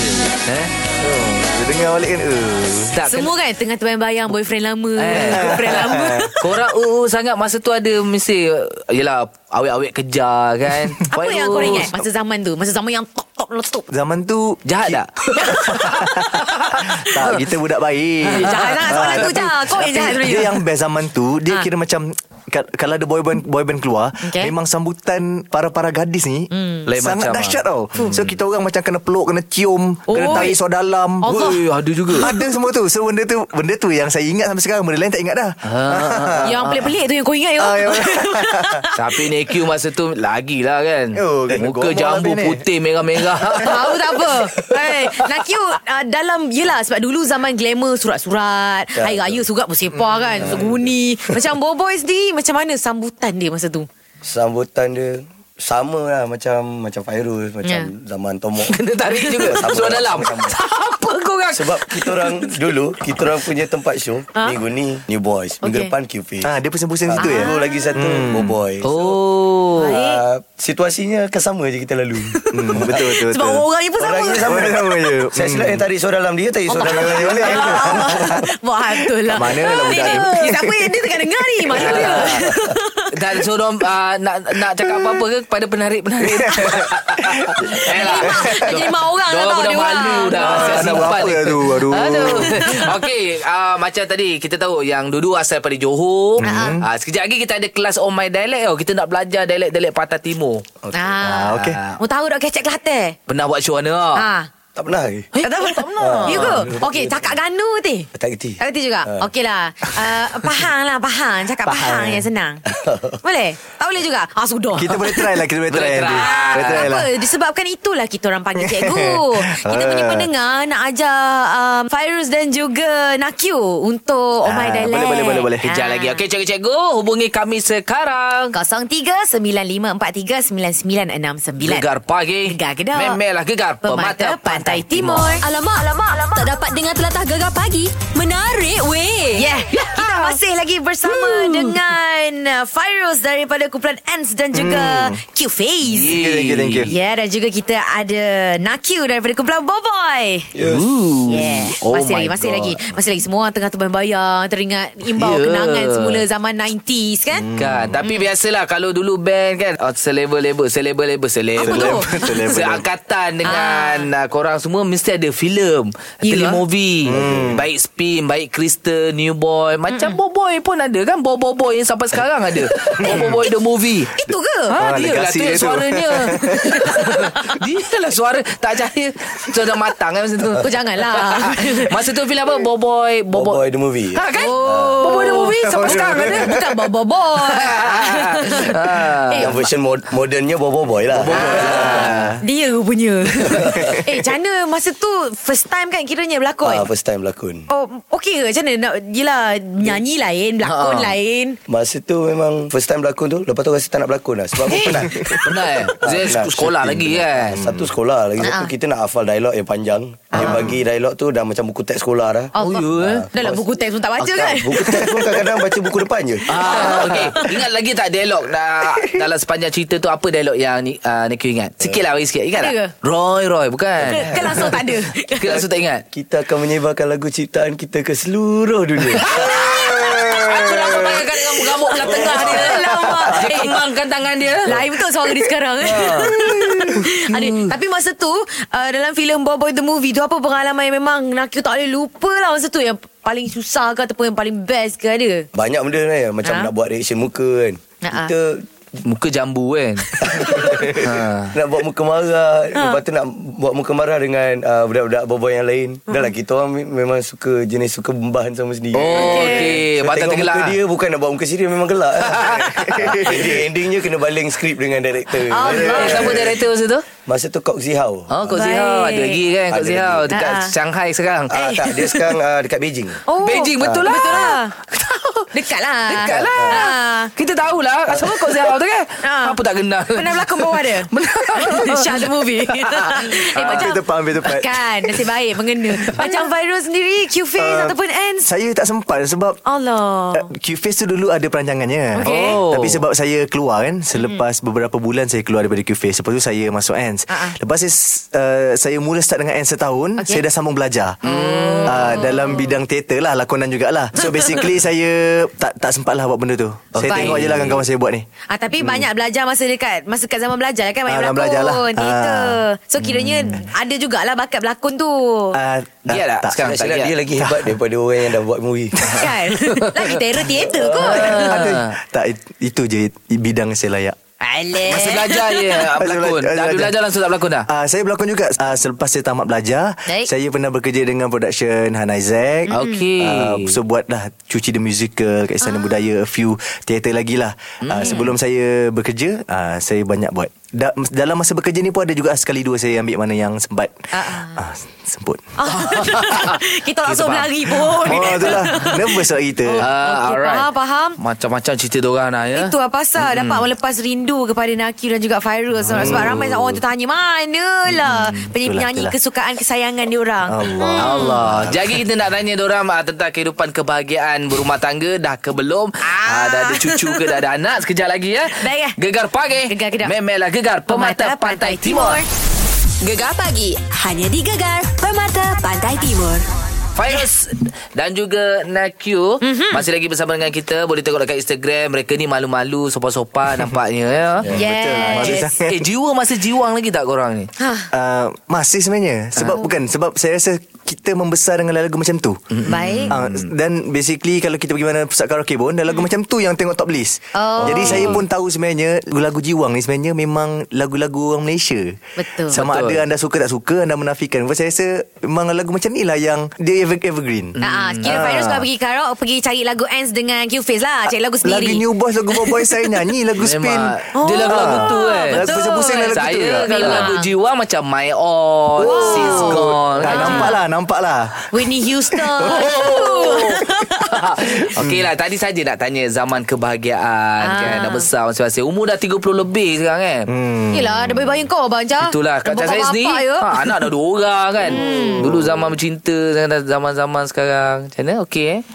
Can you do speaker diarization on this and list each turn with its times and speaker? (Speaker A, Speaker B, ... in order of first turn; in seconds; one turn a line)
Speaker A: 0.4-0.7
Speaker B: 1.0-2.9
Speaker A: 2.9-3.3
Speaker C: 3.1-6.4
Speaker A: 5.0-5.6
Speaker B: 5.1-6.3
Speaker A: 6.4-11.9
Speaker C: 11.1-13.9
Speaker B: 13.9-31.5
Speaker A: 14.7-17.4
Speaker A: 18.2-19.4
Speaker C: 18.4-20.6
Speaker C: 24.2-24.5
Speaker C: 26.5-26.9
Speaker A: 26.9-28.2
Speaker C: 30.1-30.6
Speaker C: 31.2-31.6
Speaker A: 31.3-32.3
Speaker B: 32.1-36.8
Speaker A: 35.6-36.8
Speaker C: 36.4-39.0
Speaker B: 37.6-38.9
Speaker A: 39.0-43.9
Speaker B: 41.1-42.6
Speaker B: 43.4-43.8
Speaker C: 43.6-53.9
Speaker D: 48.9-49.4
Speaker B: 49.9-50.6
Speaker D: 50.4-50.9
Speaker D: 54.2-58.8
Speaker C: 57.6-57.9
Speaker A: 58.7-62.6
Speaker C: 59.1-59.5
Speaker D: 59.4-60.5
Speaker D: 61.5-66.5
Speaker C: 65.6-65.9
Speaker B: 66.4-68.5
Speaker D: 67.0-69.2
Speaker C: 67.2-67.7
Speaker A: 68.8-70.0
Speaker D: 69.8-73.1
Speaker C: 69.8-70.2
Speaker C: 72.3-74.6
Speaker B: 72.5-73.6
Speaker D: 74.0-78.4
Speaker B: 74.4-75.8
Speaker C: 76.7-83.1
Speaker B: 76.7-78.4
Speaker B: 79.2-81.1
Speaker A: 79.9-80.3
Speaker B: 81.8-82.2
Speaker A: 81.8-82.4
Speaker A: 83.1-100.6
Speaker B: 86.2-88.7
Speaker C: 86.5-86.8
Speaker C: 87.8-91.1
Speaker B: 90.3-92.9
Speaker C: 92.0-92.9
Speaker B: 96.4-96.9
Speaker C: 96.4-96.8
Speaker D: 100.8-101.2
Speaker C: 100.9-103.2
Speaker B: 101.2-101.8
Speaker A: 101.4-102.0
Speaker A: 103.3-104.2
Speaker C: 104.1-104.5
Speaker D: 104.7-105.3
Speaker A: 105.3-106.6
Speaker C: 105.4-112.6
Speaker D: 106.0-107.3
Speaker D: 108.1-109.3
Speaker B: 111.6-112.2
Speaker D: 112.7-113.2
Speaker C: 113.2-115.3
Speaker B: 114.8-117.1
Speaker A: 115.7-116.9
Speaker C: 116.2-126.2
Speaker B: 118.5-120.3
Speaker B: 124.4-125.7
Speaker A: 125.7-128.5
Speaker C: 128.5-131.8
Speaker A: 131.6-135.3
Speaker C: 132.4-133.2
Speaker C: 133.8-135.4
Speaker E: 135.4-139.5
Speaker C: 139.3-146.2
Speaker A: 139.7-140.3
Speaker A: 141.0-141.8
Speaker B: 144.5-145.2
Speaker A: 145.8-146.9
Speaker B: 146.1-146.9
Speaker C: 146.9-150.5
Speaker D: 150.5-150.8
Speaker A: 150.6-152.9
Speaker C: 151.3-157.5
Speaker A: 155.2-156.2
Speaker B: 157.3-158.0
Speaker A: 157.6-174.1
Speaker C: 158.0-158.3
Speaker B: 161.6-162.8
Speaker C: 161.6-162.5
Speaker C: 163.4-164.1
Speaker C: 166.2-166.6
Speaker D: 167.0-167.6
Speaker B: 167.0-167.6
Speaker C: 169.9-170.2
Speaker B: 173.0-173.4
Speaker C: 174.2-174.7
Speaker B: 174.2-177.3
Speaker A: 174.7-183.6
Speaker C: 180.6-182.0
Speaker D: 183.3-185.2
Speaker A: 184.1-186.6
Speaker C: 184.3-189.5
Speaker B: 185.6-186.6
Speaker A: 187.4-189.6
Speaker D: 189.4-192.0
Speaker A: 191.1-192.3
Speaker B: 191.3-192.4
Speaker C: 191.3-196.9
Speaker D: 193.4-194.0
Speaker B: 193.6-194.0
Speaker D: 196.6-197.7
Speaker C: 197.7-201.6
Speaker A: 200.6-201.1
Speaker D: 201.7-213.6
Speaker A: 204.7-207.8
Speaker B: 205.0-205.3
Speaker C: 208.4-208.7
Speaker C: 210.3-210.7
Speaker A: 210.4-210.7
Speaker C: 212.6-215.1
Speaker A: 212.6-213.2
Speaker D: 214.2-216.9
Speaker B: 214.9-215.5
Speaker A: 216.5-224.8
Speaker C: 216.6-217.5
Speaker B: 216.7-217.3
Speaker B: 218.9-219.2
Speaker C: 222.6-222.9
Speaker D: 224.0-224.6
Speaker C: 224.0-225.5
Speaker A: 225.3-226.0
Speaker D: 225.5-229.5
Speaker A: 229.2-234.7
Speaker B: 229.3-231.2
Speaker C: 229.3-233.8
Speaker D: 232.0-232.6
Speaker B: 232.6-233.4
Speaker C: 234.6-245.4
Speaker D: 235.8-236.3
Speaker B: 236.7-237.0
Speaker D: 245.5-248.6
Speaker C: 246.4-246.7
Speaker C: 248.0-248.3
Speaker A: 249.0-251.5
Speaker D: 250.2-266.6
Speaker A: 258.9-260.8
Speaker C: 259.1-259.7
Speaker B: 262.4-263.6
Speaker C: 265.5-266.4
Speaker A: 265.6-267.0
Speaker D: 267.2-268.6
Speaker A: 268.3-271.5
Speaker C: 268.5-269.4
Speaker D: 269.7-270.3
Speaker C: 270.3-270.7
Speaker D: 271.5-273.2
Speaker C: 271.5-272.2
Speaker C: 273.3-274.7
Speaker A: 273.4-275.5
Speaker D: 273.8-274.4
Speaker C: 275.5-277.3
Speaker A: 276.1-283.9
Speaker D: 276.5-276.8
Speaker D: 278.1-278.4
Speaker C: 279.2-279.6
Speaker C: 280.1-288.5
Speaker B: 283.5-285.3
Speaker B: 287.6-289.6
Speaker C: 289.6-290.5
Speaker B: 290.3-301.2
Speaker C: 292.1-292.6
Speaker A: 292.2-293.0
Speaker C: 297.3-297.5
Speaker C: 300.2-300.4
Speaker A: 301.2-302.1
Speaker C: 301.2-302.7
Speaker B: 301.8-308.2
Speaker C: 304.2-304.6
Speaker C: 307.1-307.4
Speaker A: 307.1-307.5
Speaker D: 307.1-307.6
Speaker C: 308.5-315.6
Speaker B: 308.8-309.1
Speaker B: 311.1-312.6
Speaker A: 313.0-313.6
Speaker B: 315.5-316.6
Speaker A: 316.1-317.2
Speaker D: 316.6-319.2
Speaker B: 317.4-317.8
Speaker C: 319.1-321.6
Speaker A: 319.8-320.1
Speaker D: 320.6-321.4
Speaker A: 320.9-321.9
Speaker B: 320.9-324.2
Speaker C: 324.4-325.6
Speaker A: 324.8-327.7
Speaker B: 325.9-326.9
Speaker B: 327.7-345.5
Speaker C: 332.7-333.0
Speaker A: 332.7-333.8
Speaker C: 335.6-335.9
Speaker A: 337.8-338.2
Speaker C: 338.0-338.3
Speaker C: 344.1-344.6
Speaker C: 345.6-351.2
Speaker A: 345.7-348.6
Speaker B: 348.0-349.9
Speaker A: 349.8-353.6
Speaker C: 352.5-361.4
Speaker B: 355.9-356.8
Speaker B: 357.9-359.1
Speaker A: 358.1-358.4
Speaker B: 360.5-362.0
Speaker A: 361.0-372.2
Speaker C: 366.0-367.4
Speaker C: 368.5-369.0
Speaker C: 369.7-370.1
Speaker C: 370.9-372.2
Speaker E: 373.0-376.4
Speaker A: 376.9-384.4
Speaker C: 379.4-379.8
Speaker B: 384.4-385.9
Speaker C: 384.5-385.5
Speaker A: 385.1-387.5
Speaker C: 387.6-387.9
Speaker B: 387.9-408.6
Speaker A: 392.5-393.5
Speaker C: 392.6-393.1
Speaker C: 397.3-398.2
Speaker A: 397.6-398.2
Speaker C: 402.2-402.6
Speaker A: 402.5-403.0
Speaker A: 407.6-408.2
Speaker C: 407.6-411.8
Speaker B: 411.4-417.1
Speaker A: 413.4-420.5
Speaker C: 414.1-417.3
Speaker B: 418.8-422.7
Speaker C: 418.8-420.6
Speaker C: 421.5-424.6
Speaker A: 422.4-430.3
Speaker B: 424.8-425.1
Speaker C: 427.4-428.1
Speaker B: 430.3-431.5
Speaker C: 430.7-433.7
Speaker A: 432.0-438.6
Speaker C: 434.6-435.3